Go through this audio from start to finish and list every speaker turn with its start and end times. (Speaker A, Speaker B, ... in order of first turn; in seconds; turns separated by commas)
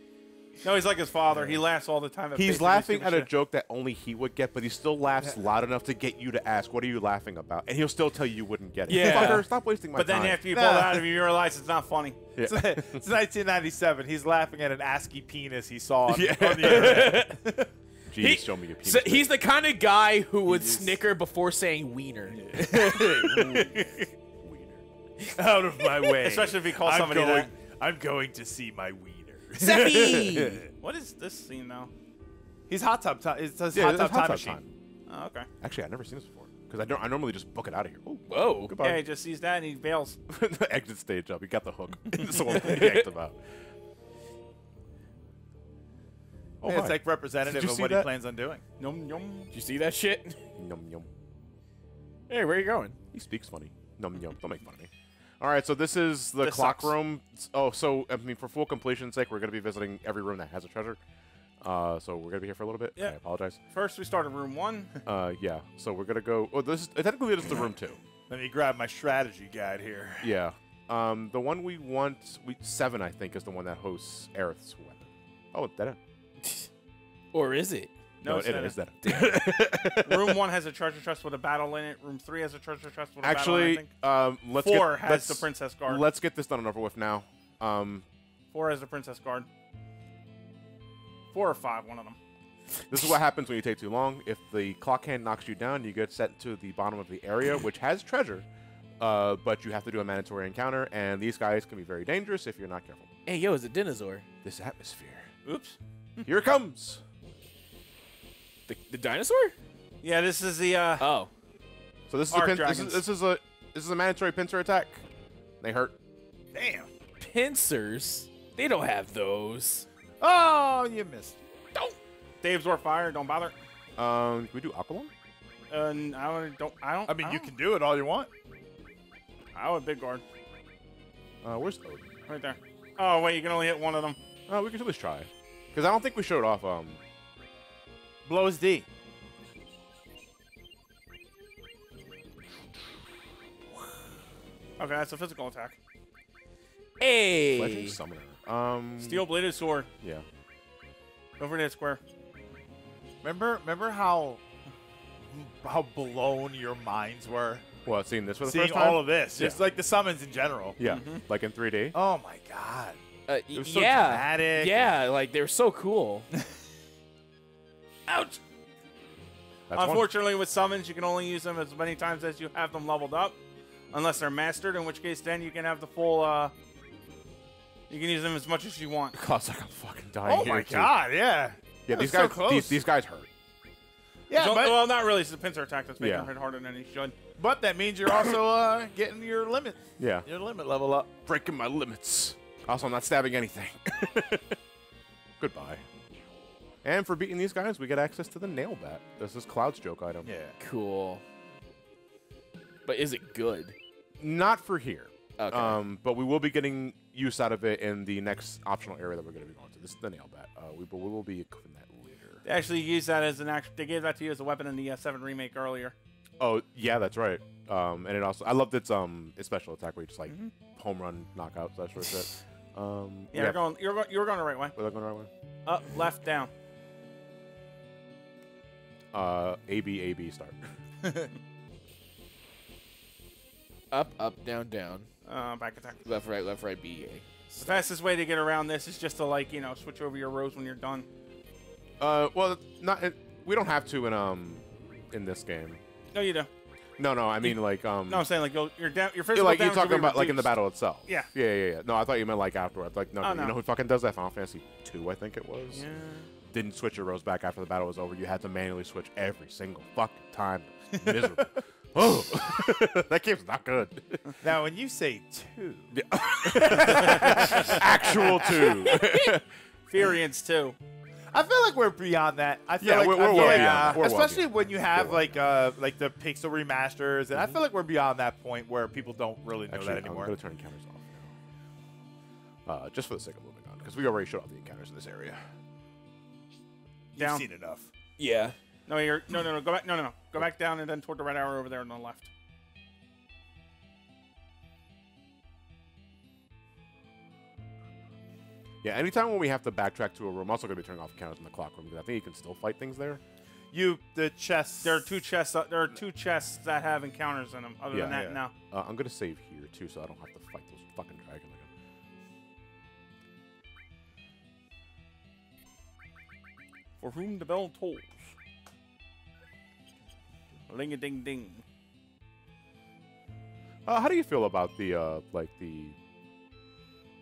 Speaker A: 0.6-3.3, Speaker B: 1.3-1.6, Speaker C: 2.4-10.4, Speaker D: 8.9-9.5, Speaker A: 9.9-12.2, Speaker B: 10.5-11.1, Speaker C: 12.4-13.0, Speaker B: 12.4-17.7, Speaker C: 16.1-17.2, Speaker D: 16.6-17.4, Speaker C: 18.1-19.3, Speaker D: 18.2-22.4, Speaker B: 20.5-21.0, Speaker B: 22.3-23.8, Speaker C: 22.9-24.8, Speaker B: 25.4-30.7, Speaker A: 26.2-27.5, Speaker D: 29.6-30.6, Speaker A: 30.8-31.9, Speaker B: 32.7-34.6, Speaker C: 33.7-34.7, Speaker A: 35.1-35.5, Speaker C: 35.6-39.0, Speaker D: 38.3-38.7, Speaker A: 38.8-40.2, Speaker C: 40.3-43.4, Speaker D: 42.6-43.1, Speaker B: 46.6-48.6, Speaker C: 46.6-48.1, Speaker A: 48.8-49.5, Speaker D: 49.5-50.4, Speaker C: 50.6-51.1, Speaker D: 52.3-53.0, Speaker C: 53.1-61.0, Speaker A: 56.4-57.0, Speaker C: 61.6-63.6, Speaker A: 63.7-64.9, Speaker C: 65.0-68.0, Speaker B: 68.3-70.3, Speaker C: 70.2-76.0, Speaker D: 77.3-77.9, Speaker A: 78.2-78.8, Speaker C: 78.2-80.4, Speaker D: 79.1-79.4, Speaker A: 80.0-83.9, Speaker C: 83.2-88.0, Speaker A: 84.6-86.0, Speaker A: 88.5-89.5, Speaker A: 91.3-92.2, Speaker C: 92.9-98.5, Speaker C: 99.0-103.1, Speaker D: 103.3-104.2, Speaker C: 104.4-105.3, Speaker A: 105.5-106.3, Speaker C: 106.2-107.0, Speaker D: 108.7-109.5, Speaker A: 110.0-111.1, Speaker D: 111.0-111.3, Speaker C: 112.1-115.0, Speaker A: 112.3-113.0, Speaker C: 115.6-115.9, Speaker B: 116.5-116.9, Speaker D: 117.2-119.9, Speaker B: 120.2-121.4, Speaker A: 121.8-123.5, Speaker C: 124.0-125.1, Speaker A: 125.7-127.5, Speaker B: 127.1-128.3, Speaker A: 129.6-130.2, Speaker C: 131.4-132.1, Speaker A: 132.3-134.2, Speaker C: 134.5-137.0, Speaker B: 138.3-138.9, Speaker A: 144.8-145.8, Speaker D: 147.0-148.0, Speaker C: 147.5-149.3, Speaker A: 149.0-149.9, Speaker A: 151.4-152.0, Speaker B: 153.2-154.4, Speaker B: 155.2-157.6, Speaker C: 157.8-159.6, Speaker B: 158.4-160.8, Speaker C: 160.8-162.0, Speaker A: 160.8-161.2, Speaker B: 161.9-163.0, Speaker D: 163.3-166.3, Speaker B: 163.5-164.8, Speaker A: 168.1-168.4, Speaker C: 169.7-170.1, Speaker A: 169.7-173.4, Speaker A: 173.9-176.5, Speaker A: 177.9-179.2, Speaker C: 179.1-181.0, Speaker B: 180.2-182.8, Speaker C: 181.9-183.3, Speaker B: 184.3-184.9, Speaker A: 184.3-187.2, Speaker C: 186.0-186.3, Speaker B: 187.4-191.1, Speaker C: 190.0-190.3, Speaker C: 191.3-194.6, Speaker C: 195.4-195.8, Speaker C: 196.8-200.3, Speaker B: 200.2-200.6, Speaker D: 200.6-201.2, Speaker D: 202.8-203.8, Speaker C: 204.2-212.4, Speaker D: 205.4-205.8, Speaker A: 212.4-215.9, Speaker C: 216.4-223.6, Speaker A: 220.3-220.5, Speaker A: 223.3-224.7, Speaker C: 224.8-225.3, Speaker A: 225.7-226.5, Speaker C: 229.1-230.7, Speaker D: 233.9-235.1, Speaker A: 235.3-236.0, Speaker D: 236.1-237.8, Speaker A: 237.6-241.1, Speaker C: 242.0-245.8, Speaker A: 246.1-246.5, Speaker C: 247.0-248.3, Speaker A: 247.4-251.3, Speaker C: 249.3-255.8, Speaker A: 253.2-253.6, Speaker A: 255.7-256.3, Speaker C: 256.5-264.4, Speaker B: 261.0-261.3, Speaker B: 264.4-265.9, Speaker C: 265.9-269.5, Speaker B: 266.5-268.8, Speaker A: 269.9-270.8, Speaker B: 271.3-280.3, Speaker C: 272.8-275.4, Speaker A: 273.3-273.8, Speaker C: 279.7-281.3, Speaker C: 282.7-285.4, Speaker B: 287.1-287.9, Speaker A: 287.2-287.4, Speaker D: 288.2-288.6, Speaker A: 288.9-292.3, Speaker C: 298.8-303.2, Speaker B: 303.7-305.1, Speaker A: 304.8-308.5, Speaker C: 307.9-311.7, Speaker B: 308.1-308.4, Speaker A: 317.0-318.3, Speaker A: 320.7-321.6, Speaker C: 323.9-326.0